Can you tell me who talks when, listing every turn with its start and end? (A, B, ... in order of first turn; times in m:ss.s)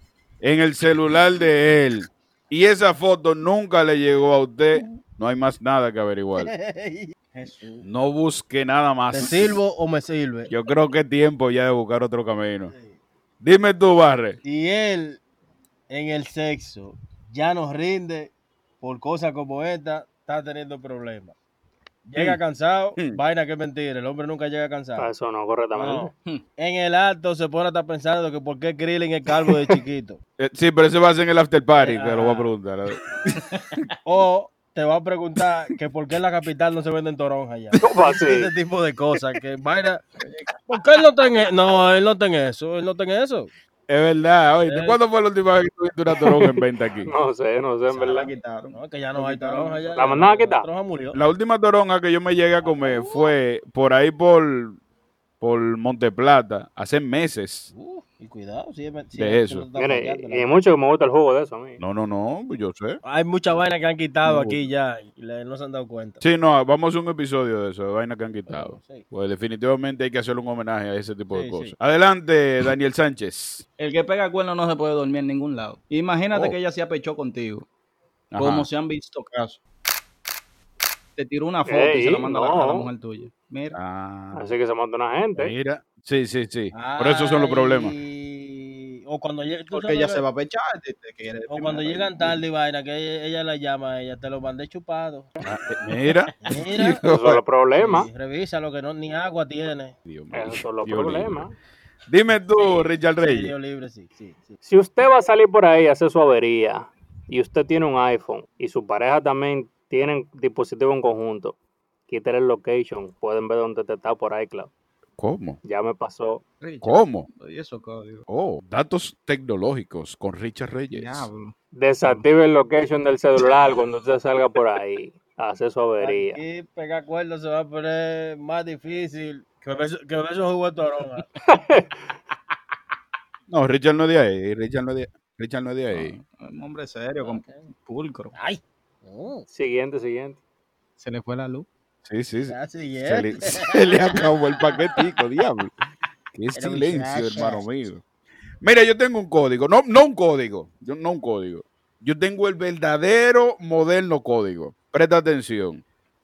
0:00.4-0:06.5 A
0:06.4-0:07.2 B
0:07.4-0:07.8 C
0:07.8-0:09.6 A
0:09.1-0:10.5 B
0:10.5-0:12.7 A
0:13.4-0:14.4 A
0:14.4-0:15.2 B
0:15.9-0:21.3 B
0:22.1-0:25.1 B
0:25.0-0:26.1 D
0:25.8-0:26.4 C
0:25.8-0:30.2 B
0:30.4-0:33.8 A
0:31.8-0:32.5 B
0:33.4-0:33.8 C
0:34.0-0:40.0 B
0:37.8-0:38.5 D
0:40.2-0:40.8 C
0:40.7-0:43.5 B
0:43.9-0:47.1 A
0:44.7-0:45.0 B
0:46.2-0:48.3 D
0:47.9-0:50.1 C
0:48.0-0:48.2 B
0:48.7-0:51.2 B
0:50.0-0:50.7 D
0:51.1-0:54.8 A
0:55.4-0:57.7 A
0:57.7-1:00.5 B
0:59.2-0:59.7 A
0:59.8-1:01.8 D
1:01.8-1:03.0 A
1:03.0-1:06.2 B
1:04.2-1:04.7 A
1:06.2-1:13.6 A
1:08.5-1:09.1 B
1:11.3-1:11.7 B
1:13.8-1:17.7 C
1:18.3-1:18.7 A
1:18.4-1:19.6 C
1:21.2-1:23.8 C
1:21.7-1:22.9 D
1:23.7-1:24.5 A
1:24.3-1:25.5 D
1:25.4-1:27.9 A
1:26.7-1:30.2 B
1:29.7-1:32.4 C
1:31.5-1:35.3 B
1:35.4-1:37.4 A
1:36.4-1:37.0 B
1:37.0-1:38.1 D
1:37.8-1:40.0 B
1:40.1-1:41.5 A
1:40.3-1:41.5 D
1:42.1-1:43.5 A
1:43.2-1:44.6 B
1:44.6-1:51.6 D
1:52.1-1:54.7 D
1:55.2-1:55.6 A
1:55.6-1:56.4 D
1:56.6-1:58.3 C
1:56.8-1:57.3 A
1:58.3-2:01.3 A
2:01.0-2:01.5 C
2:01.8-2:06.4 D
2:06.0-2:11.3 B
2:11.4-2:12.0 D
2:13.5-2:16.2 A
2:15.9-2:18.3 C
2:17.2-2:17.6 B
2:18.4-2:19.5 B
2:19.5-2:20.4 D
2:21.0-2:21.7 C
2:22.1-2:25.7 A
2:22.5-2:24.2 B
2:26.4-2:28.0 A
2:26.5-2:27.6 B
2:28.6-2:35.8 A